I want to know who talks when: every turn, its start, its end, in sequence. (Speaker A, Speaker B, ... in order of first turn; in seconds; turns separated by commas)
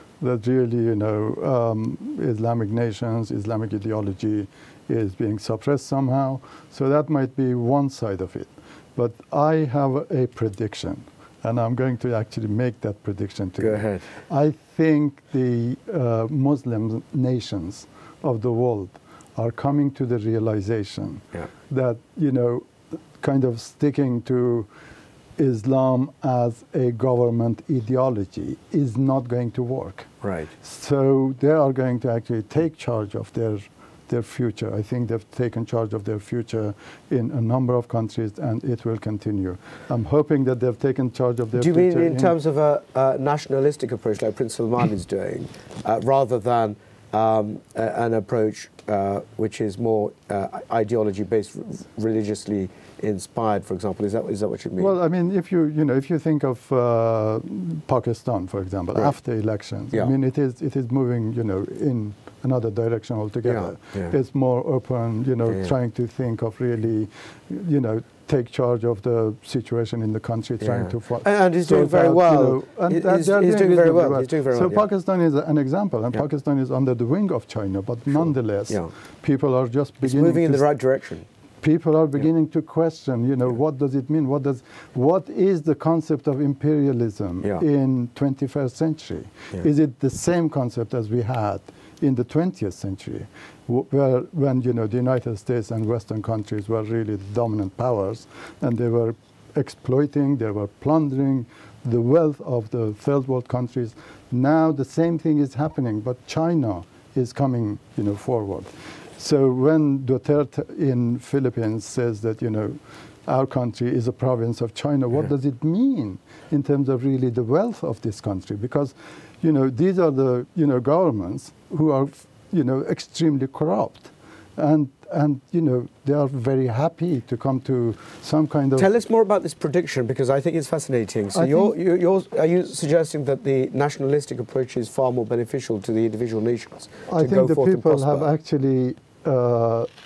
Speaker A: 0.2-24.7, Speaker B: 13.6-14.0, Speaker A: 25.4-42.3, Speaker B: 30.2-30.5, Speaker B: 41.6-54.9, Speaker A: 54.8-80.6, Speaker B: 63.5-64.1, Speaker B: 70.6-74.8, Speaker B: 80.0-81.2, Speaker A: 81.6-128.9, Speaker B: 128.8-138.3, Speaker A: 131.3-131.7, Speaker A: 137.1-139.9